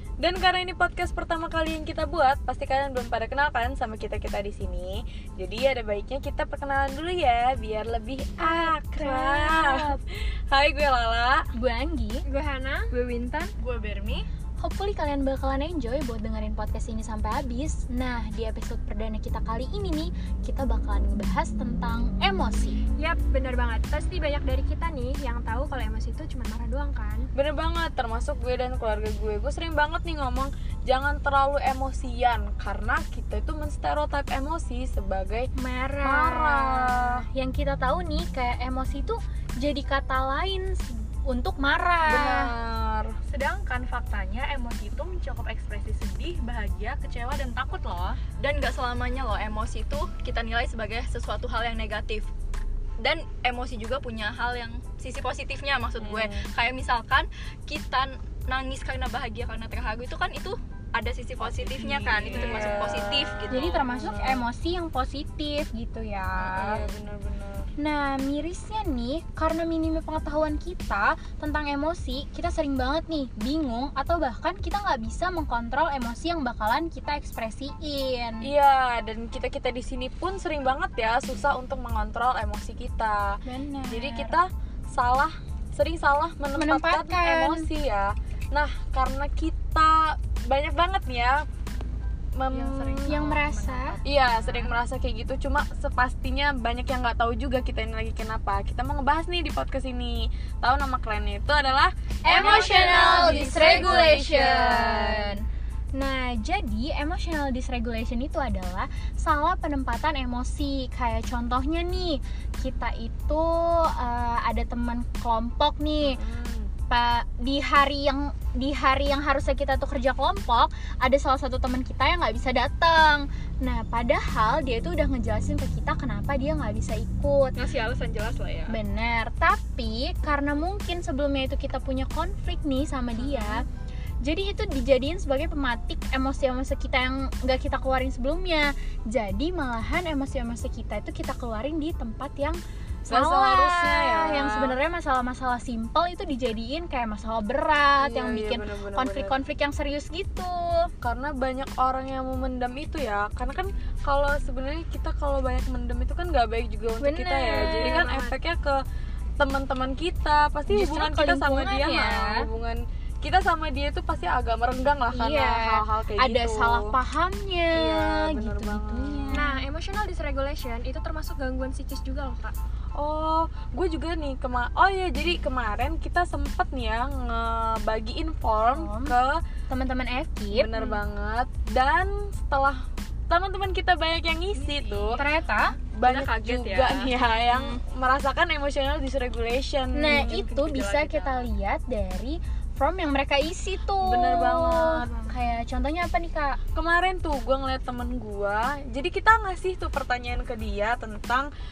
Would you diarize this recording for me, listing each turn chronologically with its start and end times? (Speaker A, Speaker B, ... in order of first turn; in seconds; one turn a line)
Speaker A: 0.2-11.5
Speaker B: 8.4-9.9
Speaker B: 11.6-12.2
Speaker C: 12.2-13.5
Speaker D: 13.6-14.3
Speaker B: 14.6-22.8
Speaker C: 23.0-27.3
Speaker A: 27.4-35.5
Speaker B: 35.6-42.5
Speaker A: 36.0-37.2
Speaker A: 42.0-43.1
Speaker D: 43.2-48.2
Speaker E: 48.3-52.3
Speaker E: 53.0-63.8
Speaker A: 56.0-56.5
Speaker A: 61.4-64.5
Speaker B: 63.5-66.9
Speaker A: 66.4-67.7
Speaker B: 67.8-78.5
Speaker A: 78.4-91.5
Speaker B: 83.5-84.4
Speaker B: 86.5-87.7
Speaker A: 92.4-93.0
Speaker D: 92.5-94.7
Speaker B: 92.9-94.0
Speaker A: 94.0-105.4
Speaker B: 102.2-105.4
Speaker D: 102.4-104.2
Speaker B: 105.9-116.2
Speaker A: 116.0-116.7
Speaker B: 116.9-127.6
Speaker E: 127.6-128.8
Speaker B: 128.7-133.7
Speaker B: 134.2-150.9
Speaker A: 143.1-144.8
Speaker A: 148.0-149.4
Speaker A: 151.0-158.8
Speaker B: 157.0-158.3
Speaker A: 159.4-167.0
Speaker B: 160.7-162.4
Speaker B: 165.1-169.5
Speaker A: 167.7-169.5
Speaker C: 169.3-172.6
Speaker A: 173.0-179.4
Speaker B: 178.6-179.2
Speaker B: 179.7-180.7
Speaker A: 180.5-185.2
Speaker C: 185.2-185.8
Speaker A: 185.9-190.4
Speaker E: 186.0-187.8
Speaker B: 189.9-196.6
Speaker E: 190.2-191.5
Speaker A: 194.0-195.1
Speaker C: 195.1-195.3
Speaker A: 196.7-201.5